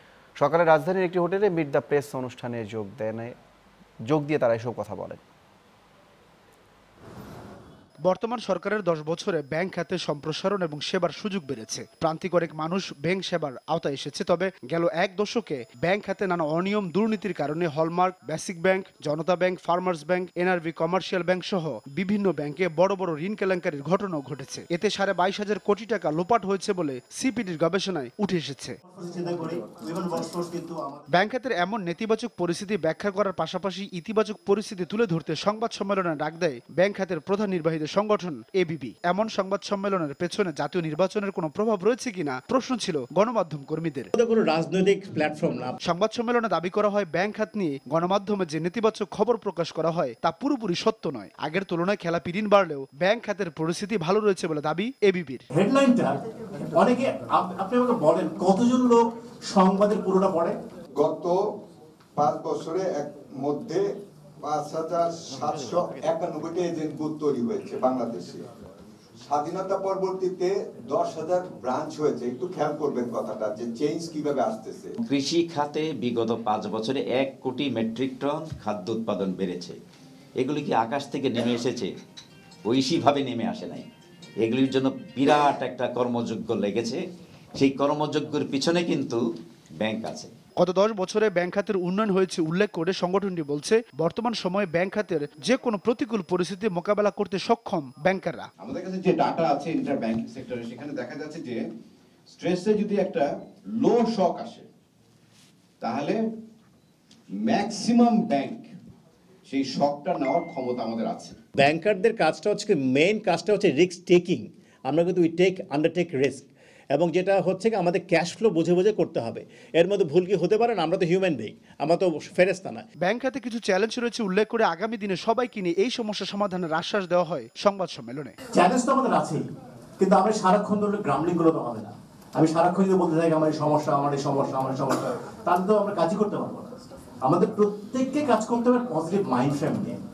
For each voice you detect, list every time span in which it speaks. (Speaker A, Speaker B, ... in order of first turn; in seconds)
Speaker A: 0.4-3.3, 4.1-5.2
Speaker B: 8.0-28.8, 31.1-44.1, 45.8-55.5, 90.6-98.5, 123.0-128.3
Speaker C: 28.9-31.0, 44.1-45.7, 55.5-60.6, 111.6-122.8, 128.5-129.4, 130.0-136.7, 137.2-140.0
Speaker D: 61.0-61.4, 62.1-63.9, 64.4-68.4, 69.2-75.0
Speaker E: 75.0-79.8, 80.4-81.9, 82.7-83.8, 84.4-87.0, 87.6-89.2, 89.8-90.3
Speaker F: 98.6-101.6, 102.3-104.7, 105.8-106.2, 107.4-108.7, 109.5-111.4